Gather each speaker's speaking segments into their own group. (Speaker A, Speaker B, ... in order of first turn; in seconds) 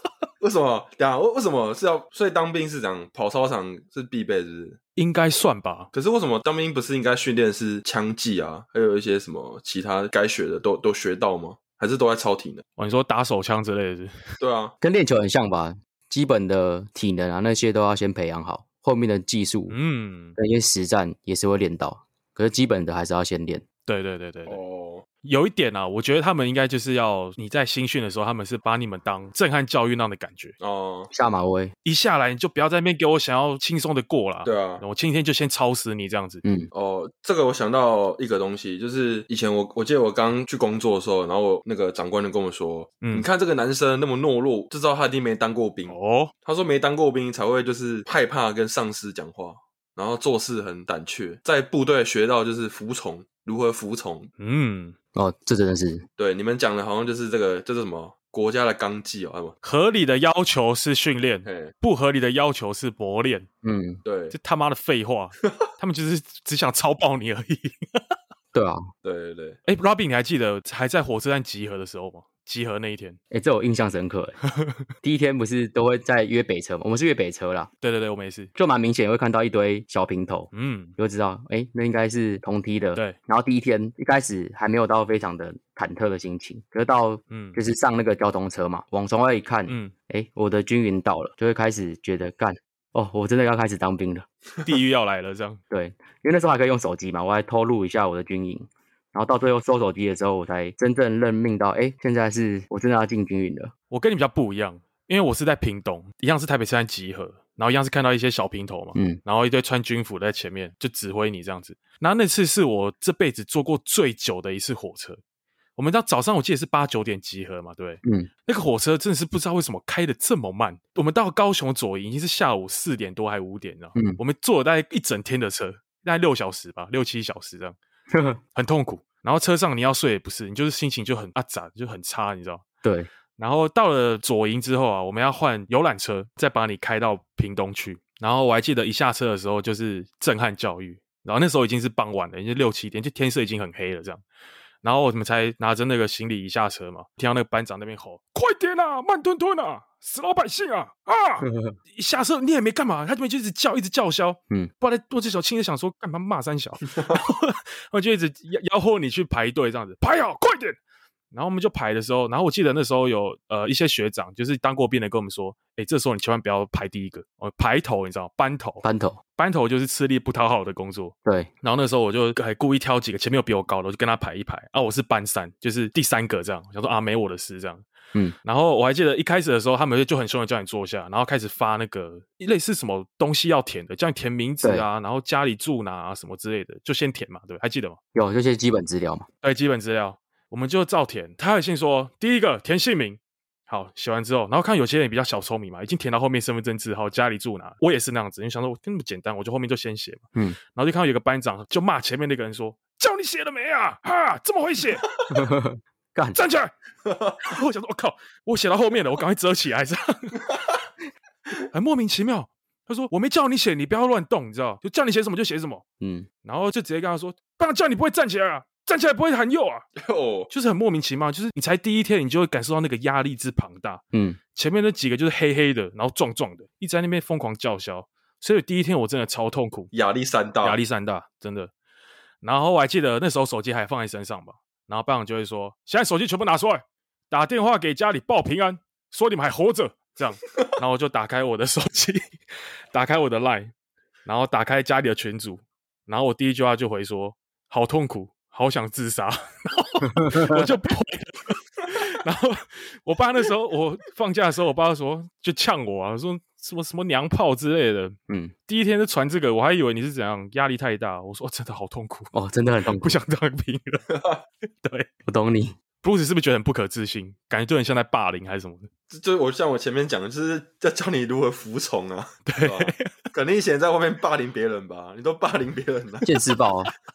Speaker A: 0.4-4.8, 5.9-12.6, 14.4-14.8, 24.5-25.1, 30.6-31.1, 34.5-34.8, 36.7-54.3, 56.2-59.5, 61.5-61.7, 64.0-64.3, 69.0-69.6, 207.1-207.4, 220.0-220.5, 229.9-230.8, 264.1-264.4, 269.1-276.3
Speaker B: 5.0-5.9, 12.8-14.1, 19.7-20.4, 23.9-24.6, 25.2-30.6, 31.9-36.4, 43.0-43.3, 45.9-46.3, 54.4-55.0, 59.6-63.5, 64.3-68.1, 69.7-73.2, 77.8-78.5, 80.5-81.0, 87.3-87.6, 89.7-89.9, 94.6-95.6, 103.9-115.2, 115.8-127.8, 128.5-132.6, 133.4-144.2, 144.8-160.8, 161.3-168.8, 169.4-177.8, 178.4-188.0, 189.4-205.1, 206.3-206.7, 207.4-210.4, 211.7-215.8, 216.4-219.8, 220.5-224.0, 224.6-229.9, 230.6-231.7, 232.4-242.2, 242.9-243.7, 244.2-258.1, 258.7-262.3, 262.9-264.0, 264.8-265.1, 266.0-268.9, 272.5-273.1
Speaker C: 14.8-19.8, 20.4-23.6, 31.1-31.7, 36.4-36.7, 55.1-56.1, 63.6-64.0, 68.5-68.8, 73.3-74.4, 75.0-77.7, 78.5-94.3, 95.7-103.7, 109.0-109.2, 118.0-118.3, 128.1-128.4, 132.8-133.1, 151.4-151.7, 168.8-169.2, 171.2-171.5, 188.2-189.3, 205.3-206.4, 216.0-216.3, 224.1-224.4, 250.2-250.7, 258.3-258.5, 262.3-263.2, 265.3-265.8, 276.2-276.9